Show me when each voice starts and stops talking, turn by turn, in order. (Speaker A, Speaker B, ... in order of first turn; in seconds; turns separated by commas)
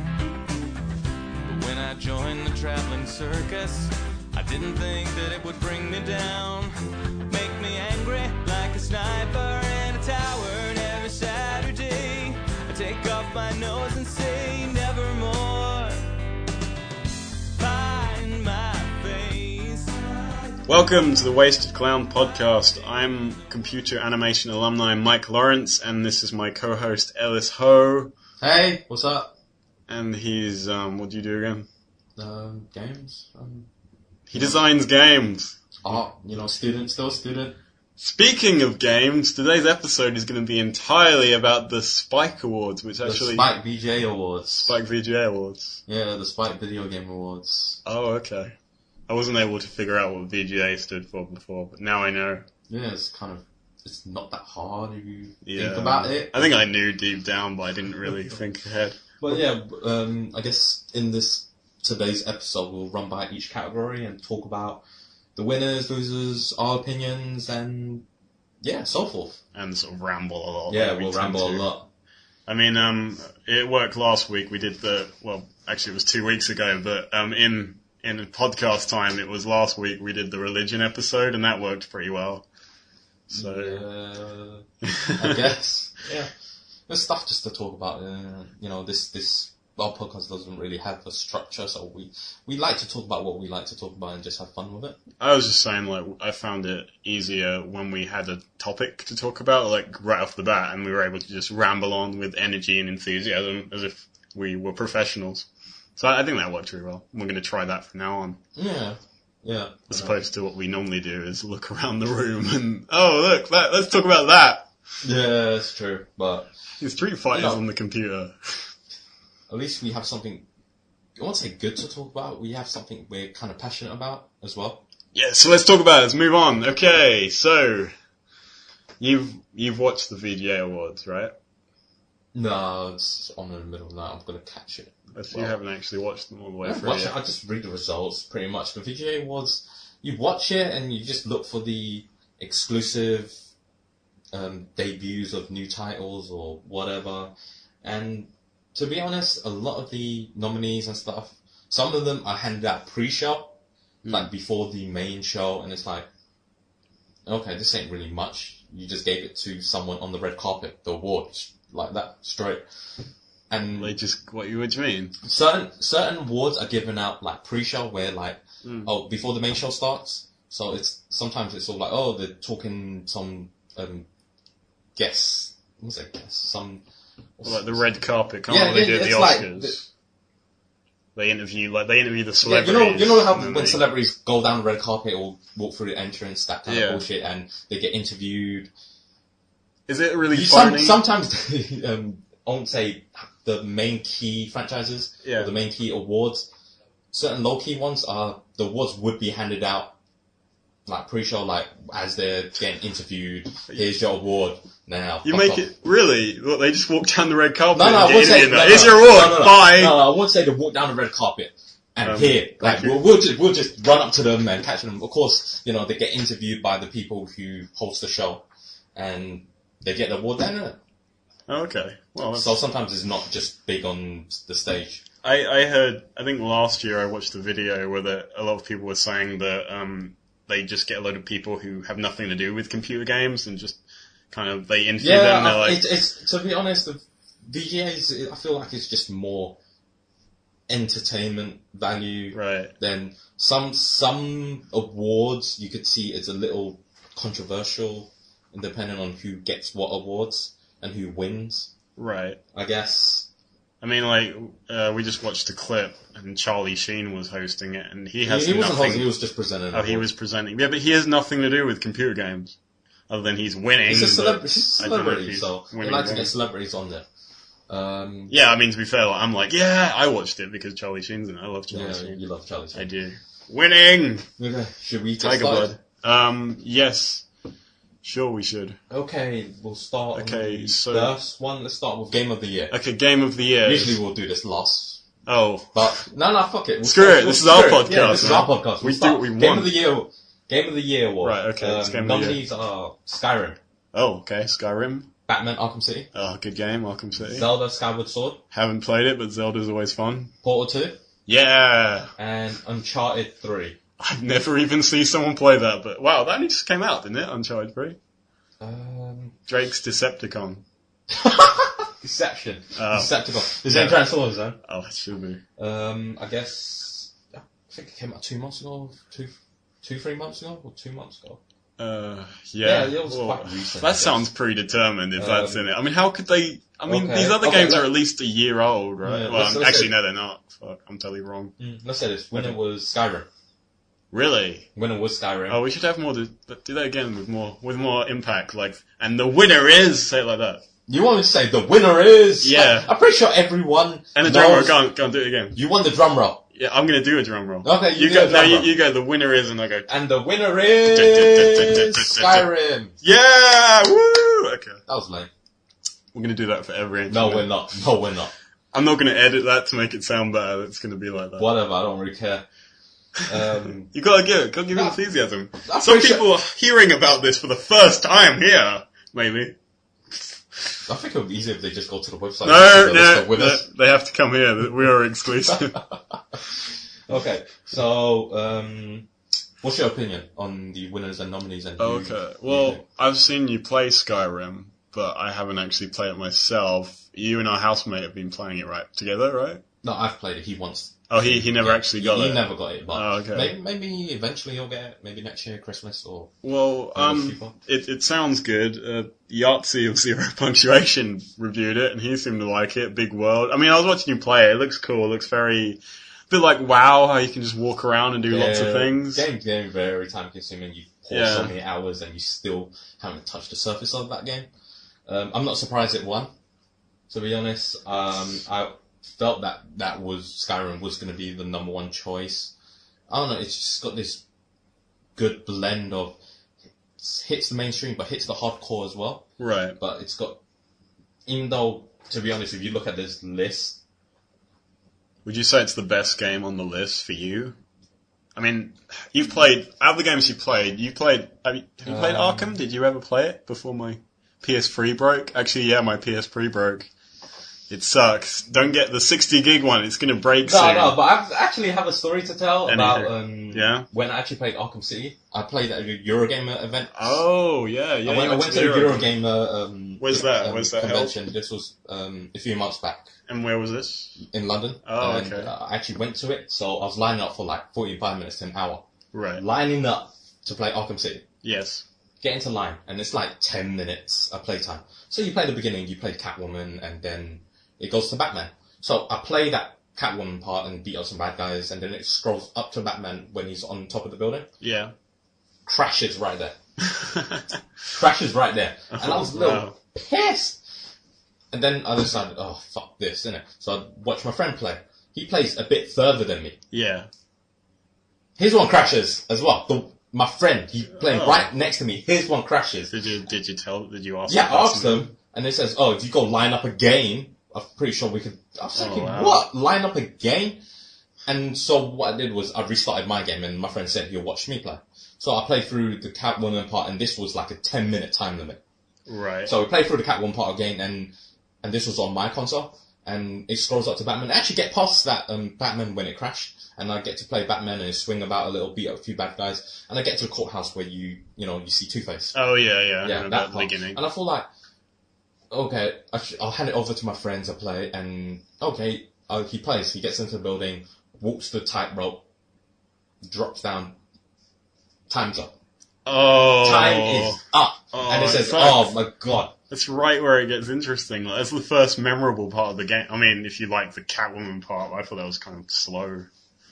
Speaker A: 1.5-6.7, Speaker A: 7.3-16.1, Speaker A: 17.6-20.6, Speaker B: 20.7-28.1, Speaker C: 28.4-29.3, Speaker B: 29.9-31.7, Speaker C: 32.2-33.7, Speaker B: 34.3-35.6, Speaker C: 34.3-34.6, Speaker C: 35.8-37.6, Speaker B: 38.0-43.5, Speaker C: 43.0-44.7, Speaker B: 44.6-45.8, Speaker C: 45.9-47.8, Speaker B: 47.9-48.5, Speaker B: 49.1-52.5, Speaker C: 52.7-56.5, Speaker B: 55.4-59.0, Speaker C: 59.2-64.8, Speaker C: 65.4-68.0, Speaker C: 68.6-69.4, Speaker B: 69.5-71.7, Speaker C: 70.7-71.9, Speaker B: 72.5-82.5, Speaker B: 83.3-83.9, Speaker C: 83.3-86.3, Speaker B: 84.8-85.4, Speaker C: 86.9-95.0, Speaker B: 95.2-108.4, Speaker C: 108.6-110.2, Speaker B: 109.9-114.7, Speaker C: 115.0-116.5, Speaker B: 116.8-118.7, Speaker C: 117.3-117.6, Speaker C: 119.5-120.5, Speaker C: 121.2-124.8, Speaker B: 125.1-127.9, Speaker B: 129.0-131.3, Speaker C: 132.3-135.6, Speaker B: 135.1-137.2, Speaker C: 136.6-143.3, Speaker C: 144.3-153.5, Speaker B: 154.0-154.3, Speaker C: 154.1-156.1, Speaker C: 157.3-162.7, Speaker C: 163.5-164.0, Speaker B: 163.8-165.2, Speaker C: 165.2-174.1, Speaker B: 168.6-168.9, Speaker C: 175.0-176.8, Speaker C: 177.4-177.8, Speaker B: 177.4-179.9, Speaker C: 178.5-179.8, Speaker B: 181.2-183.8, Speaker C: 182.4-188.7, Speaker B: 186.7-187.1, Speaker B: 189.9-191.0, Speaker C: 190.3-196.5, Speaker B: 195.2-195.5, Speaker C: 197.1-199.9, Speaker C: 200.9-205.7, Speaker B: 205.2-210.0, Speaker C: 207.7-220.8, Speaker B: 212.0-213.0, Speaker B: 221.5-222.6, Speaker C: 222.3-225.0, Speaker B: 225.2-235.8, Speaker C: 235.0-239.6, Speaker C: 240.7-251.7, Speaker B: 242.3-242.7, Speaker B: 252.0-252.4, Speaker C: 252.5-253.3, Speaker B: 253.8-259.1, Speaker C: 258.2-260.1, Speaker B: 259.7-262.6, Speaker B: 263.1-266.3, Speaker C: 263.9-267.1, Speaker C: 267.7-268.4, Speaker B: 268.3-272.2, Speaker C: 271.7-272.9, Speaker B: 272.7-274.3, Speaker C: 274.4-275.7, Speaker B: 275.2-277.3, Speaker B: 278.0-278.8, Speaker C: 278.9-282.8, Speaker B: 280.1-281.2, Speaker B: 282.7-284.0, Speaker C: 283.6-285.0, Speaker B: 285.3-286.1, Speaker C: 285.7-293.6, Speaker B: 286.8-289.7, Speaker B: 291.2-292.4, Speaker B: 293.9-295.1, Speaker C: 295.3-296.1, Speaker B: 296.1-297.5, Speaker C: 297.2-298.4, Speaker B: 298.5-300.3, Speaker C: 300.4-301.0, Speaker B: 301.3-302.1, Speaker C: 302.2-303.8, Speaker B: 304.0-308.0, Speaker C: 308.6-309.4, Speaker B: 309.5-310.6, Speaker C: 311.1-314.6, Speaker B: 312.8-314.1, Speaker B: 314.6-315.4, Speaker C: 315.6-321.4, Speaker B: 321.8-331.6, Speaker C: 322.6-324.3, Speaker C: 325.2-325.7, Speaker C: 326.9-327.9, Speaker C: 329.0-329.9, Speaker C: 331.6-333.3, Speaker B: 334.1-334.7, Speaker C: 334.8-335.6, Speaker B: 335.5-340.6, Speaker C: 340.9-344.8, Speaker B: 342.4-342.9, Speaker B: 344.1-345.6, Speaker C: 345.6-346.4, Speaker B: 346.5-349.9, Speaker C: 347.6-348.7, Speaker C: 349.9-352.9, Speaker B: 350.9-352.5, Speaker B: 353.0-354.8, Speaker C: 354.9-355.3, Speaker B: 356.1-357.5, Speaker C: 357.1-358.3, Speaker B: 358.7-361.5, Speaker C: 361.4-362.4, Speaker C: 363.3-363.9, Speaker B: 363.9-369.6, Speaker C: 365.6-366.3, Speaker C: 370.9-373.7, Speaker B: 372.4-375.8, Speaker C: 375.5-375.8, Speaker C: 376.3-379.1, Speaker C: 379.6-382.8, Speaker B: 381.8-389.6, Speaker C: 389.8-396.4, Speaker B: 391.1-393.5, Speaker B: 396.4-409.3, Speaker C: 396.9-397.5, Speaker C: 408.3-414.5, Speaker B: 411.1-411.5, Speaker C: 415.1-416.3, Speaker C: 417.1-422.5, Speaker C: 423.1-424.2, Speaker C: 425.2-426.2, Speaker C: 427.0-429.2, Speaker B: 429.4-429.8, Speaker C: 429.8-430.4, Speaker C: 431.3-433.8, Speaker B: 435.2-437.6, Speaker B: 438.4-446.9, Speaker C: 441.9-442.6, Speaker B: 447.7-451.0, Speaker C: 450.4-457.2, Speaker B: 452.7-453.9, Speaker B: 456.9-459.1, Speaker C: 458.1-463.1, Speaker B: 460.0-461.2, Speaker B: 463.3-464.2, Speaker C: 464.2-468.9, Speaker B: 464.8-465.5, Speaker B: 469.1-469.4, Speaker C: 469.4-471.2, Speaker B: 471.4-471.8, Speaker C: 472.2-484.5, Speaker B: 484.6-484.9, Speaker C: 485.7-486.6, Speaker B: 486.9-487.6, Speaker C: 487.9-490.6, Speaker B: 488.9-489.8, Speaker C: 491.5-496.6, Speaker B: 496.7-497.1, Speaker C: 498.4-502.9, Speaker B: 501.0-501.5, Speaker B: 502.9-505.1, Speaker C: 504.3-510.6, Speaker B: 508.8-509.4, Speaker C: 511.3-518.6, Speaker B: 519.1-519.5, Speaker C: 519.5-532.4, Speaker B: 532.3-534.0, Speaker C: 533.0-534.5, Speaker C: 535.5-542.2, Speaker C: 543.2-544.0, Speaker C: 545.1-545.5, Speaker B: 546.1-547.4, Speaker C: 546.6-549.5, Speaker B: 547.9-549.0, Speaker B: 549.7-556.3